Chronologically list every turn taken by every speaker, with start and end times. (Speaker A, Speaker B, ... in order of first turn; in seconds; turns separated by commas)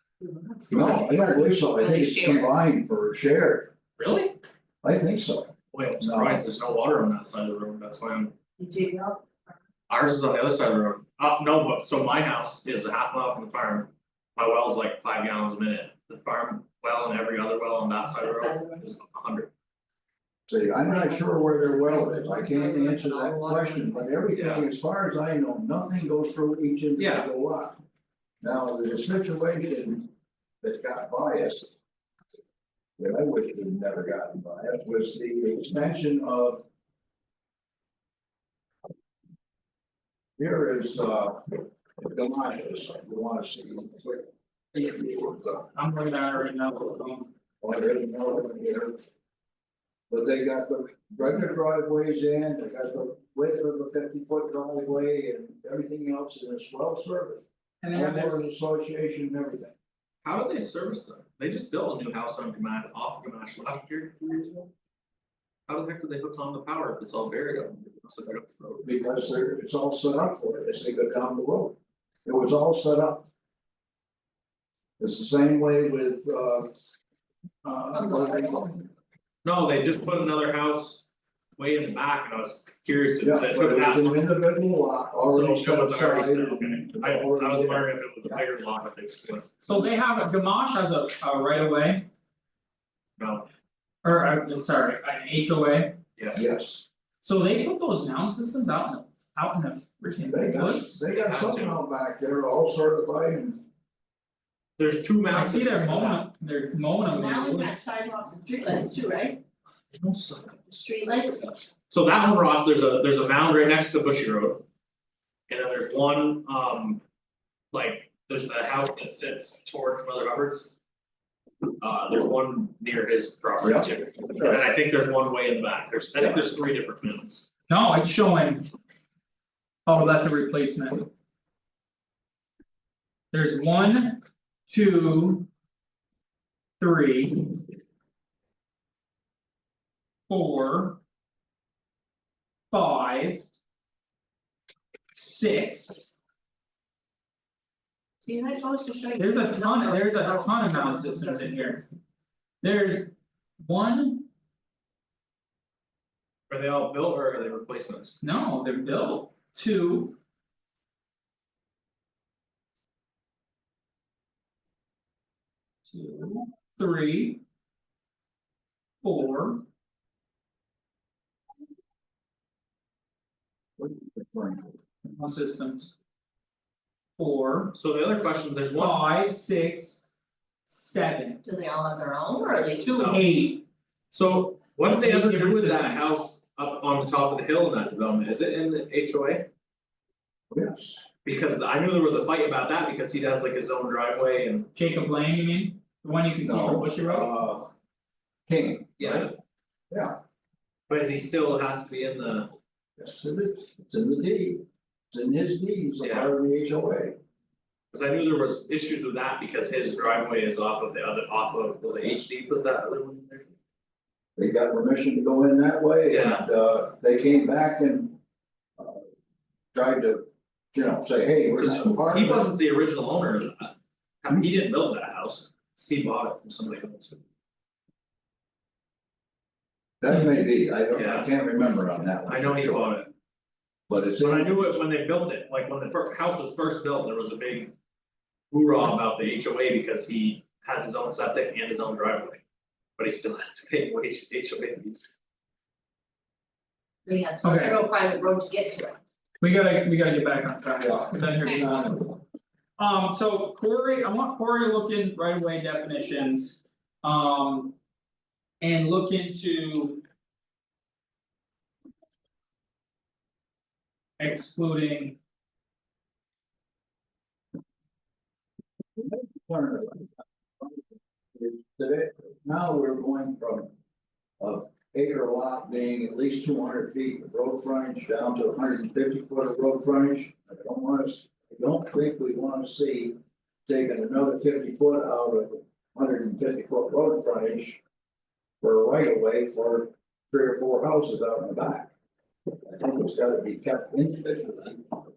Speaker A: 0.2-2.5, Speaker B: 0.7-1.0, Speaker C: 0.7-3.7, Speaker B: 4.0-4.3, Speaker C: 4.8-6.4, Speaker B: 5.7-8.3, Speaker A: 8.6-9.4, Speaker B: 9.9-19.5, Speaker A: 18.1-18.8, Speaker C: 20.5-27.8, Speaker A: 20.7-24.2, Speaker B: 24.3-24.7, Speaker B: 27.0-27.3, Speaker C: 28.4-30.1, Speaker C: 30.6-31.7, Speaker C: 33.0-36.6, Speaker C: 40.4-45.7, Speaker D: 45.7-47.3, Speaker C: 47.6-49.0, Speaker C: 50.1-59.8, Speaker D: 57.8-58.5, Speaker B: 60.2-64.7, Speaker B: 65.7-68.9, Speaker C: 68.8-73.3, Speaker C: 75.0-76.7, Speaker C: 77.6-78.9, Speaker A: 77.9-78.5, Speaker B: 79.4-84.3, Speaker C: 83.2-88.4, Speaker B: 85.2-89.5, Speaker D: 89.6-92.1, Speaker B: 93.2-93.5, Speaker D: 94.0-96.0, Speaker C: 96.3-96.8, Speaker D: 97.2-100.9, Speaker C: 100.3-103.6, Speaker B: 100.9-101.8, Speaker B: 104.8-106.2, Speaker D: 105.3-107.7, Speaker A: 107.0-109.4, Speaker B: 109.9-110.7, Speaker A: 110.7-111.6, Speaker B: 111.4-114.6, Speaker B: 115.5-117.0, Speaker B: 117.7-120.7, Speaker B: 121.8-127.5, Speaker C: 123.6-124.6, Speaker C: 126.1-126.5, Speaker D: 127.7-128.7, Speaker D: 129.8-131.1, Speaker D: 133.3-135.5, Speaker D: 136.8-137.6, Speaker D: 140.3-141.0, Speaker D: 142.7-143.4, Speaker D: 145.1-146.0, Speaker A: 148.2-151.8, Speaker D: 149.2-151.8, Speaker D: 152.6-154.3, Speaker B: 156.5-158.2, Speaker D: 158.2-160.2, Speaker D: 165.9-167.4, Speaker D: 169.0-169.7, Speaker C: 173.8-174.8, Speaker D: 175.0-175.9, Speaker D: 177.2-177.7, Speaker B: 177.7-179.0, Speaker D: 178.7-180.0, Speaker D: 180.7-181.4, Speaker A: 181.4-183.0, Speaker D: 182.8-183.6, Speaker B: 182.9-183.2, Speaker B: 184.1-189.5, Speaker D: 184.8-186.1, Speaker C: 190.5-191.0, Speaker B: 191.2-194.7, Speaker D: 194.7-197.3, Speaker C: 196.4-197.7, Speaker C: 198.5-199.3, Speaker B: 199.0-199.3, Speaker C: 199.9-200.2, Speaker B: 200.9-202.5, Speaker C: 203.0-207.2, Speaker B: 206.0-206.3, Speaker B: 207.9-213.5, Speaker C: 214.4-218.2, Speaker B: 216.1-216.5, Speaker C: 218.8-219.1, Speaker C: 219.7-222.5, Speaker B: 221.6-227.2, Speaker C: 230.0-233.0, Speaker B: 230.9-231.3, Speaker B: 232.2-233.1, Speaker C: 233.9-234.7, Speaker B: 234.2-237.7, Speaker B: 238.5-242.4, Speaker B: 243.0-245.1, Speaker A: 247.1-249.0, Speaker D: 247.4-247.8, Speaker D: 249.4-252.2, Speaker A: 251.4-251.7, Speaker D: 252.8-257.8, Speaker D: 258.6-260.0, Speaker D: 264.2-265.2, Speaker C: 268.9-273.7, Speaker C: 274.4-287.8, Speaker C: 288.6-291.9, Speaker C: 292.6-295.0